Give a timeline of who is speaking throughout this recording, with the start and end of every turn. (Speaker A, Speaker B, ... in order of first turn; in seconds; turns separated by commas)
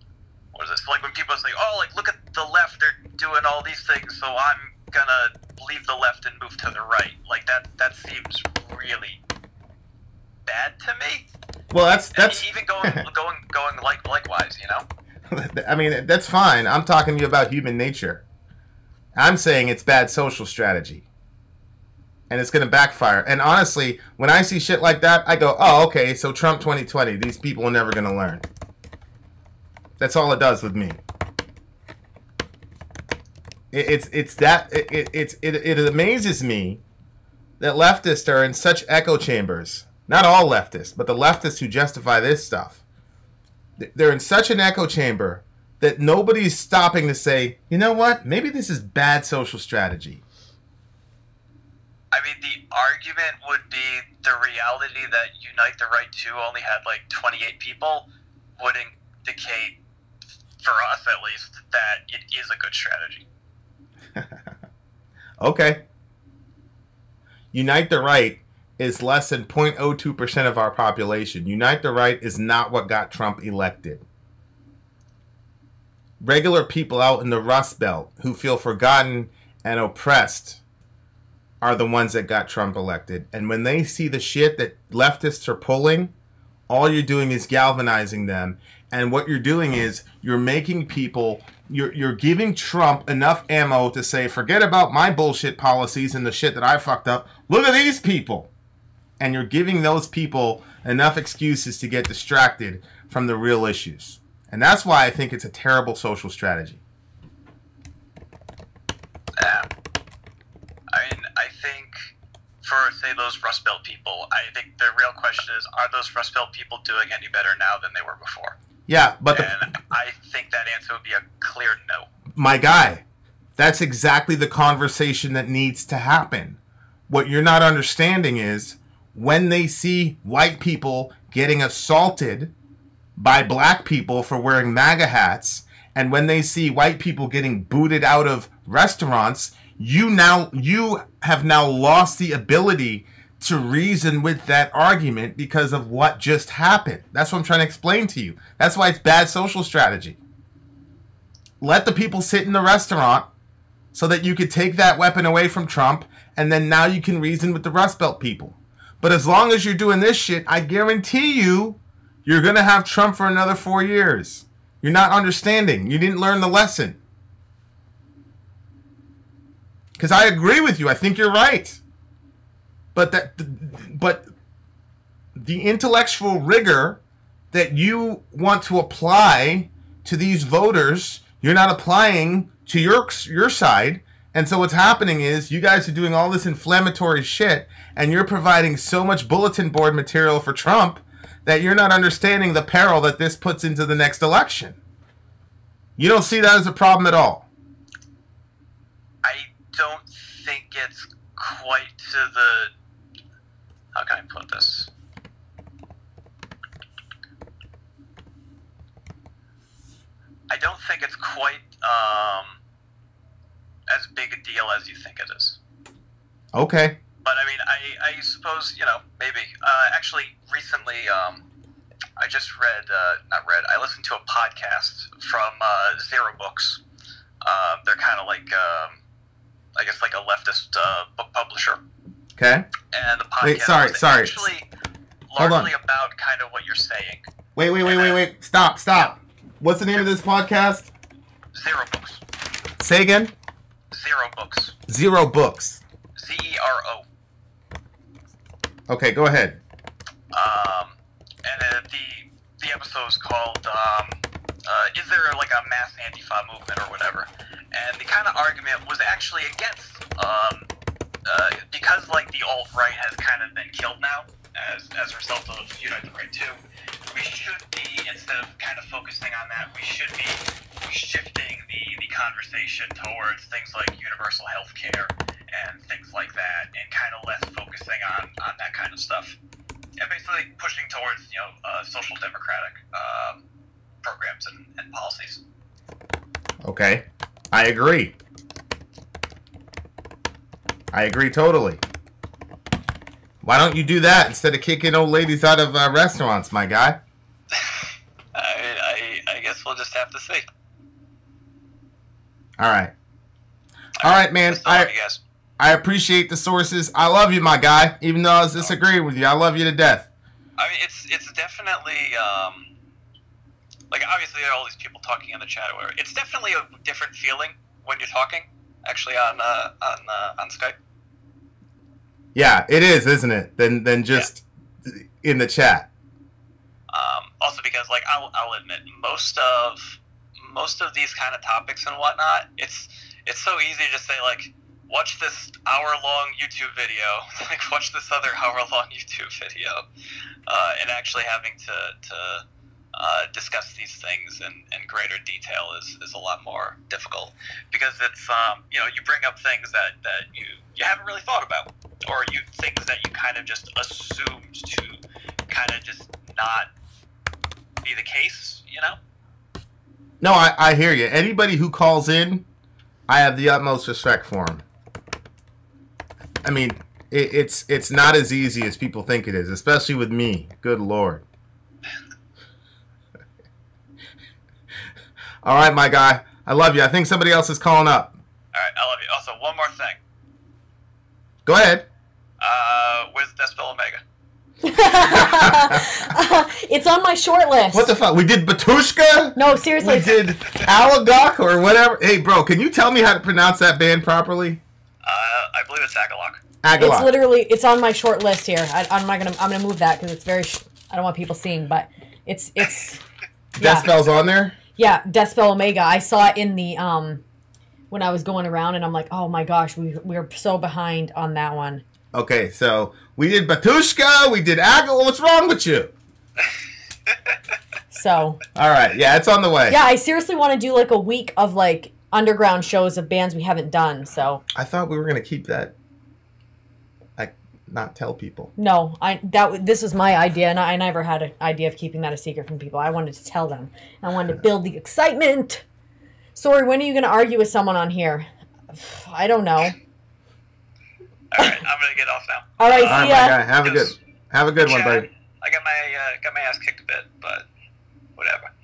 Speaker A: 0.5-9.2, Speaker A: 10.4-11.3, Speaker B: 11.7-13.1, Speaker A: 12.1-14.8, Speaker B: 15.3-18.2, Speaker B: 19.1-21.0, Speaker B: 22.3-28.4, Speaker B: 30.0-31.0, Speaker B: 33.7-36.8, Speaker B: 37.6-42.8, Speaker B: 43.8-50.2, Speaker A: 52.1-58.1, Speaker A: 58.6-59.8, Speaker A: 60.6-63.2, Speaker B: 64.1-64.4, Speaker B: 65.4-65.8, Speaker B: 67.5-74.0, Speaker B: 76.2-80.6, Speaker B: 81.6-86.1, Speaker B: 86.7-98.5, Speaker B: 99.2-106.8, Speaker A: 109.4-109.7, Speaker A: 110.9-112.1, Speaker A: 112.6-118.5, Speaker B: 118.9-119.5, Speaker A: 119.3-122.1, Speaker B: 122.3-123.0, Speaker B: 123.6-132.5, Speaker B: 133.2-150.2, Speaker B: 151.6-153.3, Speaker B: 153.9-167.0, Speaker B: 170.0-171.8, Speaker B: 172.9-174.2, Speaker B: 175.3-177.0, Speaker B: 177.5-194.8, Speaker B: 196.0-197.5, Speaker A: 199.2-202.7, Speaker A: 203.9-204.9, Speaker A: 210.5-212.6, Speaker A: 213.9-215.6, Speaker B: 216.5-217.0, Speaker A: 217.2-221.4, Speaker A: 222.2-226.8, Speaker A: 227.4-229.0, Speaker A: 229.7-231.8, Speaker B: 232.4-232.7, Speaker A: 232.9-234.7, Speaker B: 233.4-234.5, Speaker A: 235.3-237.3, Speaker B: 235.3-235.7, Speaker B: 237.5-240.9, Speaker A: 237.8-238.2, Speaker A: 241.5-242.2, Speaker B: 242.8-243.3, Speaker A: 243.9-244.8, Speaker B: 244.9-245.8, Speaker A: 246.2-247.0, Speaker B: 248.9-249.6, Speaker A: 250.3-260.7, Speaker A: 261.2-266.6, Speaker A: 267.1-279.4, Speaker A: 280.0-283.4, Speaker A: 284.0-285.4, Speaker B: 286.6-288.1, Speaker B: 290.9-291.8, Speaker B: 293.4-297.0, Speaker A: 297.5-300.4, Speaker B: 302.6-302.9, Speaker A: 304.0-305.2, Speaker B: 304.0-304.9, Speaker B: 305.6-310.1, Speaker A: 310.6-312.7, Speaker A: 313.9-320.8, Speaker B: 322.3-325.9, Speaker A: 326.9-339.8, Speaker A: 340.5-356.7, Speaker A: 357.8-359.0, Speaker B: 360.2-362.4, Speaker B: 363.1-364.6, Speaker B: 366.4-371.2, Speaker B: 375.4-378.1, Speaker A: 378.5-380.0, Speaker B: 381.4-381.9, Speaker A: 382.4-384.0, Speaker C: 384.6-387.9, Speaker B: 385.2-386.1, Speaker B: 387.7-394.6, Speaker C: 389.4-390.2, Speaker A: 395.0-396.4, Speaker B: 396.6-397.1, Speaker C: 396.7-403.0, Speaker B: 403.6-404.6, Speaker C: 403.6-403.9, Speaker C: 404.7-407.2, Speaker C: 407.9-411.8, Speaker B: 412.1-415.9, Speaker C: 417.9-418.4, Speaker B: 418.6-419.8, Speaker C: 419.7-424.4, Speaker B: 424.5-425.7, Speaker B: 427.2-428.5, Speaker C: 428.6-435.6, Speaker C: 436.3-439.7, Speaker A: 441.3-444.0, Speaker C: 442.6-443.4, Speaker B: 442.8-445.1, Speaker A: 444.6-447.5, Speaker A: 448.2-448.5